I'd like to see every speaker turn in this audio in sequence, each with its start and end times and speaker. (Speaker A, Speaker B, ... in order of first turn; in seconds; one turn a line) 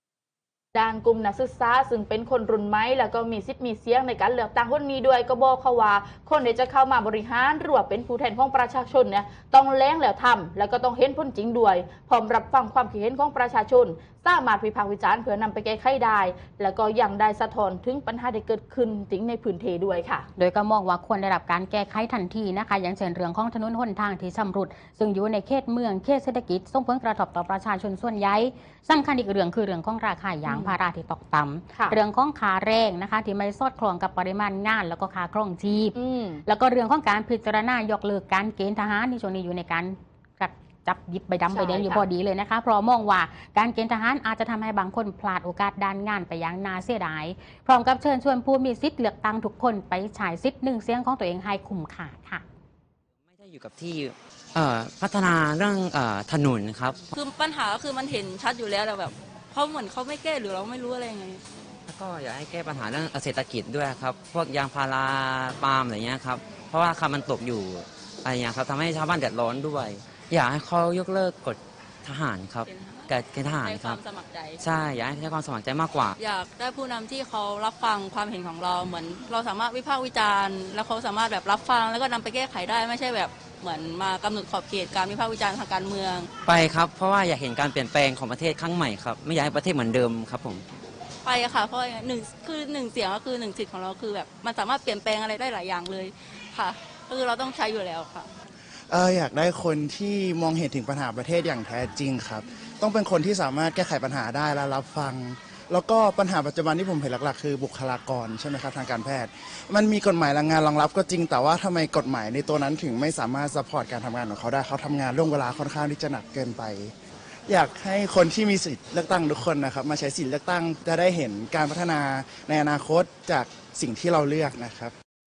Speaker A: 0.7-20.3
Speaker B: 20.4-52.4
Speaker A: 30.4-30.7
Speaker A: 35.9-36.4
Speaker A: 41.5-42.0
Speaker C: 53.3-57.0
Speaker D: 57.1-61.4
Speaker C: 61.9-74.0
Speaker D: 72.7-74.6
Speaker C: 74.6-76.1
Speaker D: 76.2-86.3
Speaker C: 86.4-90.6
Speaker D: 91.2-98.3
Speaker E: 98.9-116.9
Speaker E: 117.5-124.9